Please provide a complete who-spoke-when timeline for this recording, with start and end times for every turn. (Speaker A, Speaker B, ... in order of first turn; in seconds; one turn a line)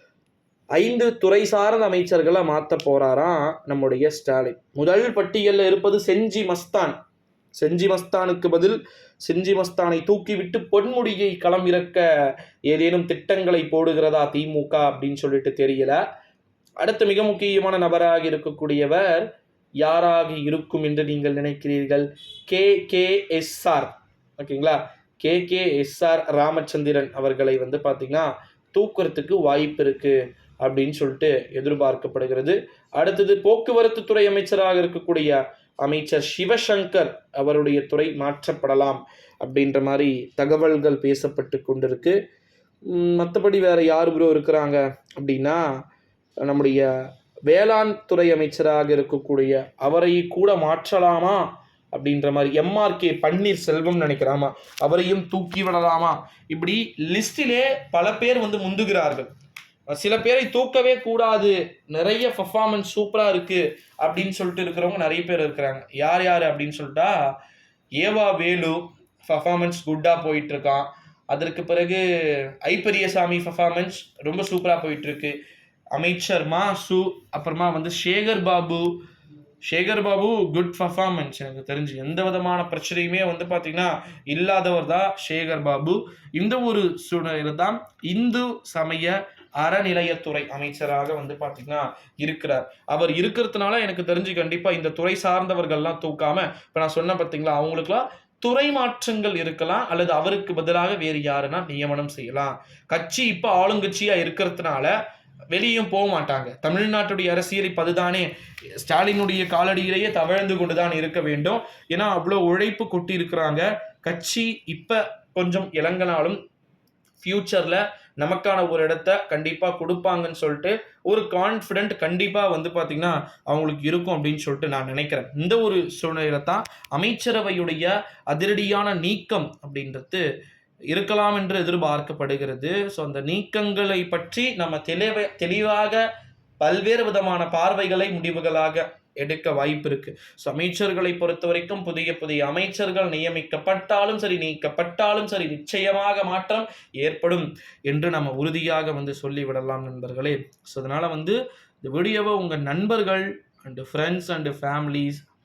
Speaker A: 0.7-7.0
Speaker A: 7.5-12.0
Speaker A: 12.7-16.0
Speaker A: 16.8-19.3
Speaker A: 19.8-42.2
Speaker A: 42.9-45.6
Speaker A: 46.4-46.9
Speaker A: 47.5-59.3
Speaker A: 59.9-67.2
Speaker A: 68.0-72.0
Speaker A: 72.6-75.4
Speaker A: 75.9-79.0
Speaker A: 79.7-104.9
Speaker A: 105.5-116.4
Speaker A: 117.2-130.2
Speaker A: 130.9-136.0
Speaker A: 136.6-155.2